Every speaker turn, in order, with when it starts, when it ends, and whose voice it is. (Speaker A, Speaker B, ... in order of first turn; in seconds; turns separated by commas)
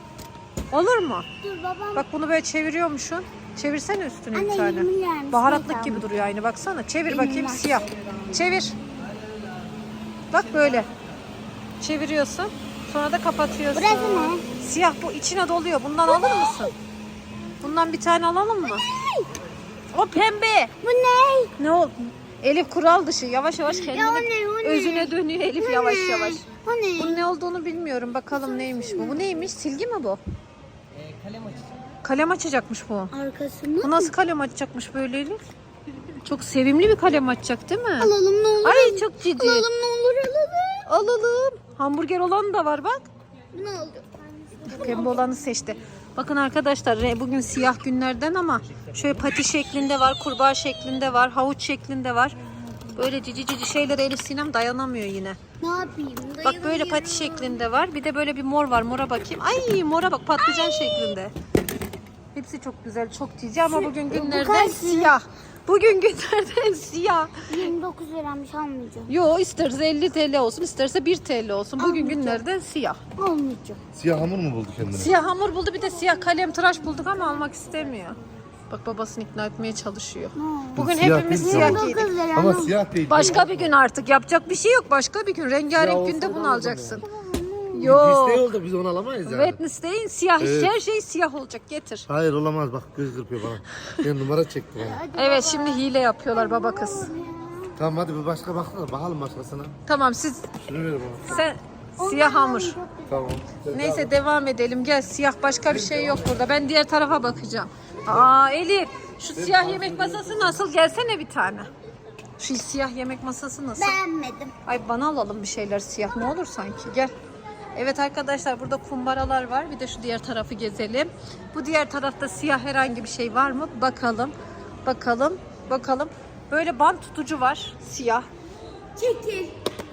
Speaker A: 0.7-1.3, Speaker B: 1.4-2.1, Speaker A: 1.9-8.8, Speaker B: 4.3-6.1, Speaker B: 7.1-7.9, Speaker A: 10.3-10.9, Speaker A: 11.8-16.7, Speaker B: 13.7-14.4, Speaker B: 16.1-16.7, Speaker A: 17.6-18.8, Speaker B: 18.6-19.3, Speaker A: 19.9-20.7, Speaker B: 20.8-21.5, Speaker A: 21.6-26.4, Speaker B: 23.7-27.2, Speaker A: 27.0-30.2, Speaker B: 28.3-29.2, Speaker A: 32.0-33.1, Speaker B: 33.1-34.1, Speaker A: 33.8-35.4, Speaker A: 36.2-38.1, Speaker B: 38.0-40.9, Speaker A: 38.6-39.7, Speaker A: 40.9-43.0, Speaker B: 43.5-44.0, Speaker B: 44.6-45.2, Speaker A: 44.7-52.4, Speaker A: 53.0-55.4, Speaker B: 55.6-57.6, Speaker A: 56.4-61.3, Speaker B: 60.4-61.2, Speaker A: 62.3-67.7, Speaker B: 63.7-65.2, Speaker B: 67.5-69.1, Speaker A: 69.1-73.0, Speaker B: 71.8-72.4, Speaker B: 73.2-73.8, Speaker C: 74.0-75.1, Speaker A: 74.9-78.2, Speaker B: 76.0-77.8, Speaker A: 78.7-82.1, Speaker B: 80.4-80.9, Speaker C: 80.8-83.7, Speaker B: 81.5-82.8, Speaker A: 83.1-87.0, Speaker C: 85.7-87.0, Speaker B: 87.0-87.9, Speaker A: 87.8-88.5, Speaker C: 87.8-89.6, Speaker A: 89.2-92.1, Speaker C: 90.4-90.7, Speaker C: 92.1-95.0, Speaker B: 94.8-97.8, Speaker A: 95.2-97.1, Speaker C: 97.8-99.7, Speaker A: 99.9-100.5, Speaker C: 100.6-101.4, Speaker B: 101.2-103.3, Speaker A: 101.3-102.8, Speaker C: 103.1-104.1, Speaker A: 103.7-111.7, Speaker C: 105.7-106.2, Speaker C: 109.4-110.6, Speaker A: 112.4-114.0, Speaker B: 113.8-114.5, Speaker A: 114.7-117.1, Speaker A: 117.7-124.3, Speaker A: 124.8-128.3, Speaker B: 129.0-129.5